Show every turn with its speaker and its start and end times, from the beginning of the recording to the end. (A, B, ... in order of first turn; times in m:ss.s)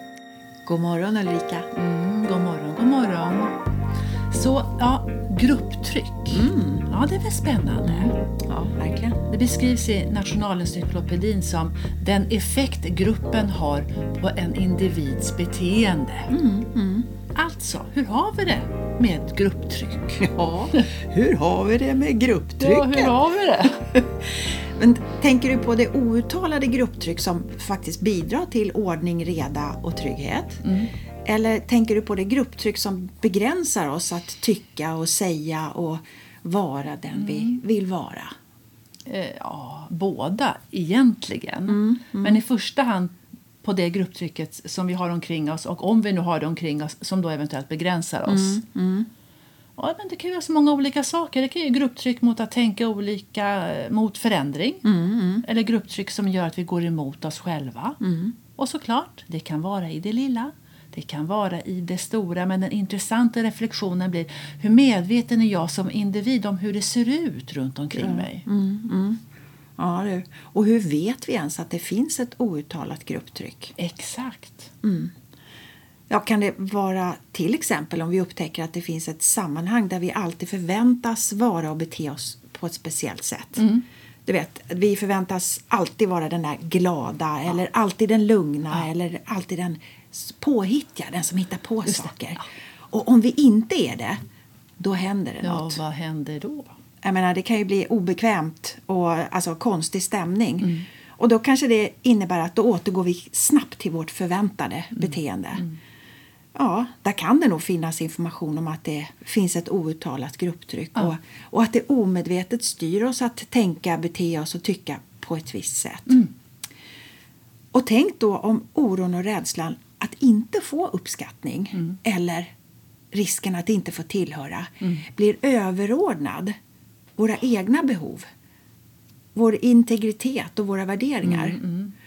0:00.7-0:01.7 A
0:01.7-0:03.6 B
0:04.3-0:08.2 B
0:06.3-0:06.9 A
0:07.8-0:09.2 A
0:09.3-0:16.3 B
0:16.3-0:17.1 A
0:17.4-0:20.3 B
0:20.2-0:23.2 A
0:22.6-0:23.8 B
0:23.7-0:30.6 A
0:30.6-0:30.9 B
0:31.2-0:38.3 A
0:37.1-0:37.6 B
0:39.1-0:48.6 B
0:41.7-0:42.4 A
0:48.3-0:49.1 A
0:49.8-0:54.8 B
0:54.8-0:55.4 A
0:55.4-0:58.0 B
0:58.0-0:58.4 A
0:58.6-1:08.4 B
1:08.0-1:09.2 A
1:09.8-1:13.8 A
1:13.8-1:14.7 B
1:14.8-1:15.1 A
1:16.1-1:23.7 A
1:23.6-1:23.8 B
1:24.3-1:34.2 A
1:31.9-1:32.4 B
1:34.8-1:35.8 A
1:35.4-1:36.7 B
1:37.0-1:45.6 A
1:45.0-1:45.8 B
1:46.6-1:56.2 A
1:57.7-2:02.5 A
2:03.1-2:06.5 A
2:07.2-2:08.2 A
2:09.4-2:11.6 A
2:11.2-2:11.9 B